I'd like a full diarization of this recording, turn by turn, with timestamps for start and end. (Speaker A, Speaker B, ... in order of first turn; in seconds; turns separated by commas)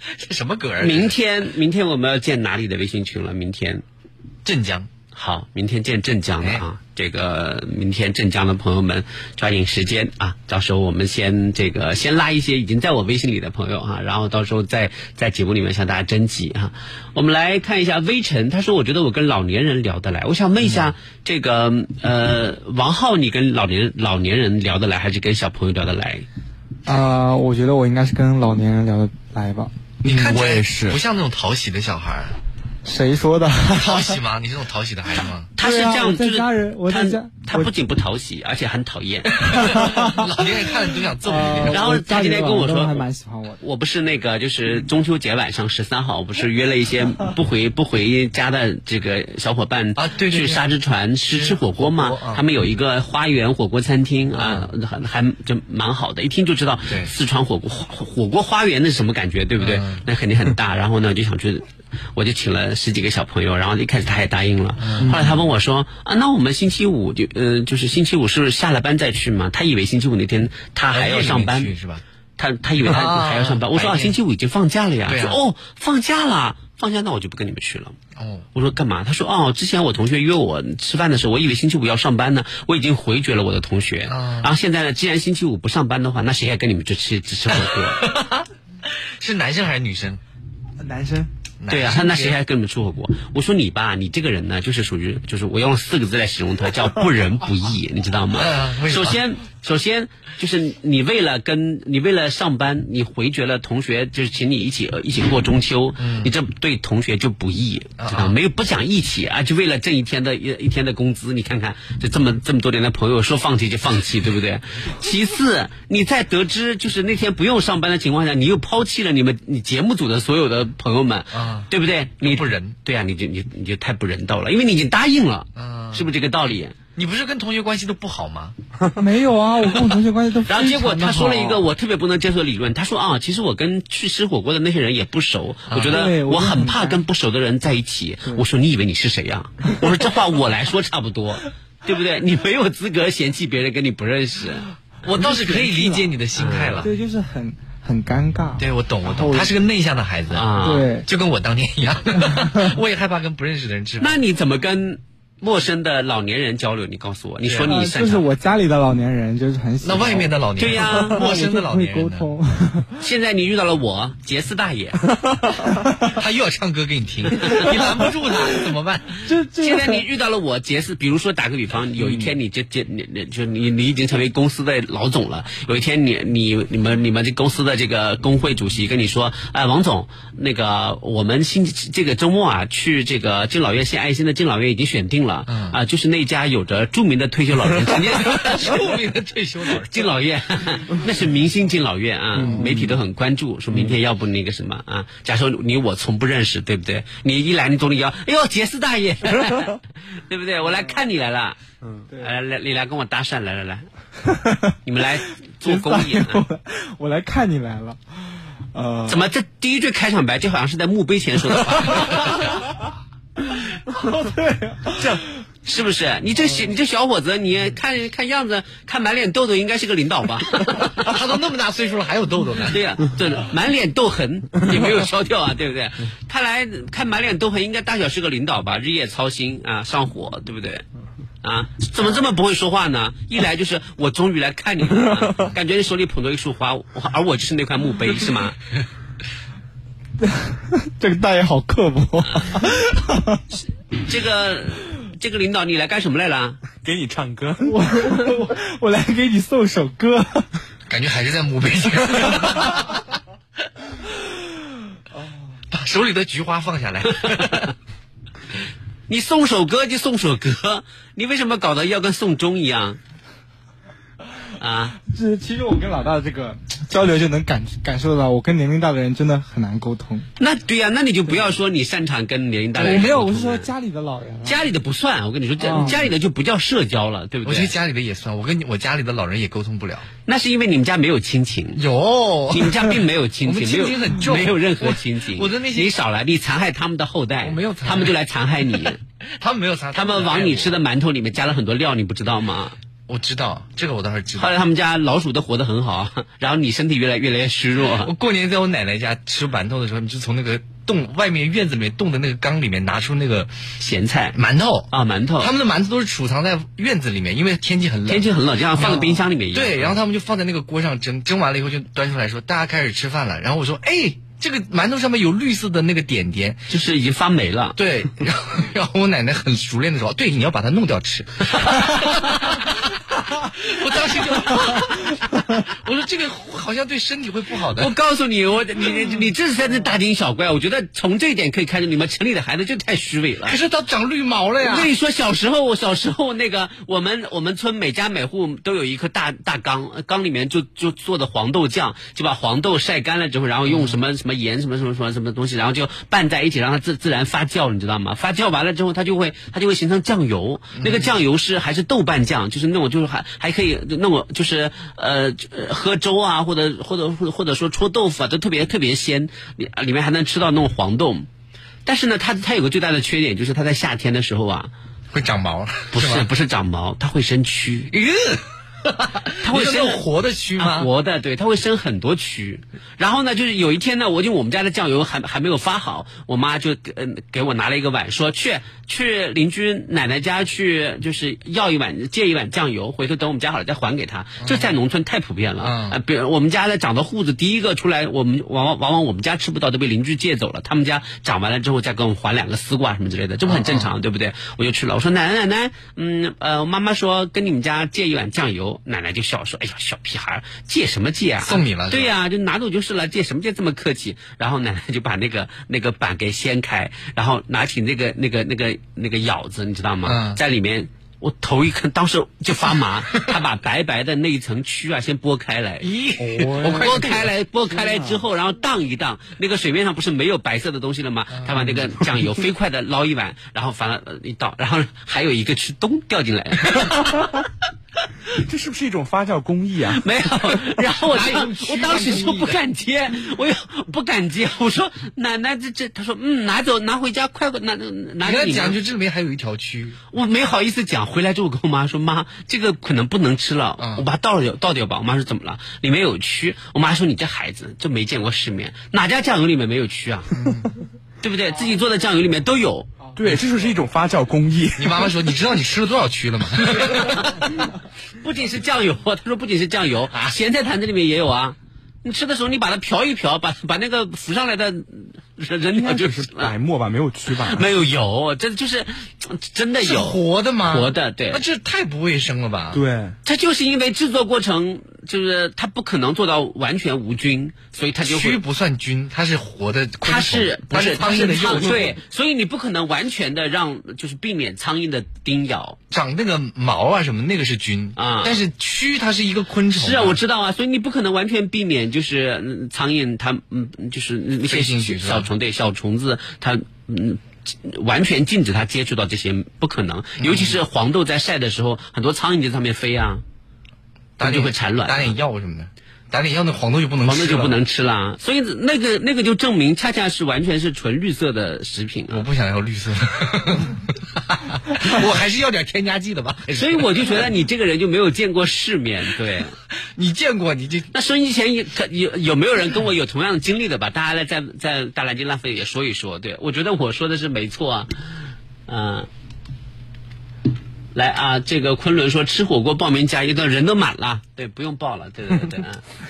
Speaker A: 0.2-1.1, Speaker B: 0.8-3.8, Speaker A: 4.4-4.9, Speaker B: 5.1-26.2, Speaker A: 20.6-20.9, Speaker C: 26.9-29.7, Speaker D: 30.0-31.0, Speaker A: 30.0-32.3, Speaker C: 32.8-34.1, Speaker A: 33.7-35.5, Speaker B: 35.6-39.5, Speaker C: 35.6-37.7, Speaker A: 39.4-42.0, Speaker C: 39.5-40.2, Speaker C: 41.2-43.6, Speaker B: 41.7-43.0, Speaker B: 43.6-61.6, Speaker A: 50.0-50.7, Speaker A: 51.3-52.4, Speaker A: 54.3-54.7, Speaker A: 59.6-60.0, Speaker B: 62.1-71.7, Speaker A: 64.8-65.4, Speaker A: 70.9-72.0, Speaker B: 72.4-77.9, Speaker A: 72.8-74.2, Speaker A: 75.0-75.4, Speaker A: 78.2-78.5, Speaker B: 78.5-88.1, Speaker A: 84.1-84.5, Speaker A: 87.5-88.4, Speaker A: 89.2-90.2, Speaker C: 90.8-91.3, Speaker A: 91.6-92.3, Speaker B: 91.7-126.7, Speaker A: 98.3-99.2, Speaker A: 106.0-106.3, Speaker A: 108.0-108.4, Speaker A: 121.3-121.7, Speaker A: 122.2-122.7, Speaker A: 125.5-126.1, Speaker A: 127.0-128.5, Speaker C: 128.9-131.6, Speaker B: 130.5-144.7, Speaker A: 135.7-136.1, Speaker C: 135.9-137.0, Speaker A: 145.0-146.9, Speaker C: 145.2-146.1, Speaker B: 146.3-146.9, Speaker C: 146.8-149.5, Speaker A: 148.6-154.2, Speaker B: 150.3-150.9, Speaker C: 150.6-151.1, Speaker C: 152.3-152.7, Speaker B: 154.0-158.3, Speaker C: 157.6-162.9, Speaker A: 159.8-162.3, Speaker B: 160.6-161.3, Speaker B: 163.0-165.0, Speaker A: 166.1-169.2, Speaker C: 169.2-170.0, Speaker B: 169.6-188.9, Speaker C: 172.0-172.3, Speaker A: 185.5-185.8, Speaker A: 187.9-190.2, Speaker B: 189.9-201.6, Speaker C: 192.5-192.8, Speaker B: 202.2-203.8, Speaker C: 204.3-204.7, Speaker B: 204.8-206.4, Speaker C: 205.6-208.0, Speaker C: 208.7-209.2, Speaker B: 209.1-212.6, Speaker C: 211.9-212.3, Speaker C: 213.9-215.2, Speaker B: 215.7-221.1, Speaker A: 221.0-222.8, Speaker B: 222.7-230.8, Speaker B: 231.4-238.6, Speaker C: 240.2-243.4, Speaker B: 244.1-246.6, Speaker D: 246.8-247.7, Speaker C: 247.6-250.5, Speaker A: 250.9-252.9, Speaker A: 255.7-257.7, Speaker B: 259.1-263.0, Speaker B: 264.6-265.0, Speaker C: 265.1-270.2, Speaker B: 270.4-273.7, Speaker C: 272.8-274.6, Speaker B: 274.4-277.7, Speaker C: 275.6-276.1, Speaker A: 277.4-280.1, Speaker B: 280.2-281.8, Speaker A: 281.8-285.9, Speaker B: 282.5-289.0, Speaker A: 287.4-288.1, Speaker A: 289.4-290.8, Speaker B: 289.9-292.7, Speaker A: 293.1-294.5, Speaker B: 294.4-298.1, Speaker A: 298.0-303.5, Speaker B: 303.8-304.4, Speaker A: 304.3-304.9, Speaker B: 304.9-305.5, Speaker A: 305.4-316.6, Speaker B: 308.1-310.0, Speaker B: 316.7-317.8, Speaker A: 317.8-322.8, Speaker A: 323.4-327.9, Speaker B: 327.8-333.6, Speaker A: 333.4-334.9, Speaker B: 334.6-361.3, Speaker A: 343.6-344.0, Speaker A: 350.8-351.1, Speaker B: 361.9-364.7, Speaker A: 365.1-366.3, Speaker B: 365.9-367.9, Speaker A: 367.9-370.9, Speaker B: 369.4-370.0, Speaker B: 370.6-415.9, Speaker A: 384.4-384.7, Speaker A: 385.6-386.0, Speaker A: 393.4-393.9, Speaker A: 401.4-402.1, Speaker A: 410.0-410.4, Speaker A: 415.8-417.3, Speaker C: 416.3-416.9, Speaker B: 416.6-427.4, Speaker A: 421.4-421.9, Speaker D: 428.3-430.1, Speaker B: 429.9-438.8, Speaker A: 430.8-432.6, Speaker A: 438.2-440.0, Speaker B: 440.1-450.3, Speaker A: 443.8-444.0, Speaker A: 450.3-450.7, Speaker B: 451.2-452.9, Speaker D: 453.1-455.1, Speaker A: 454.8-457.2, Speaker B: 457.0-457.2, Speaker B: 458.2-466.5, Speaker D: 465.8-467.7, Speaker B: 467.3-471.4, Speaker A: 469.8-472.8, Speaker D: 472.7-473.1, Speaker B: 473.2-478.4, Speaker A: 478.0-482.0, Speaker B: 480.0-485.8, Speaker A: 485.9-490.2, Speaker B: 487.9-488.4, Speaker B: 489.7-503.2, Speaker A: 494.4-495.3, Speaker A: 500.2-500.6, Speaker A: 504.2-507.6, Speaker B: 504.2-505.1, Speaker B: 507.0-512.2, Speaker A: 512.1-517.3, Speaker B: 516.5-519.5, Speaker A: 520.0-520.9, Speaker B: 520.9-527.9, Speaker B: 528.7-529.1, Speaker B: 530.9-535.8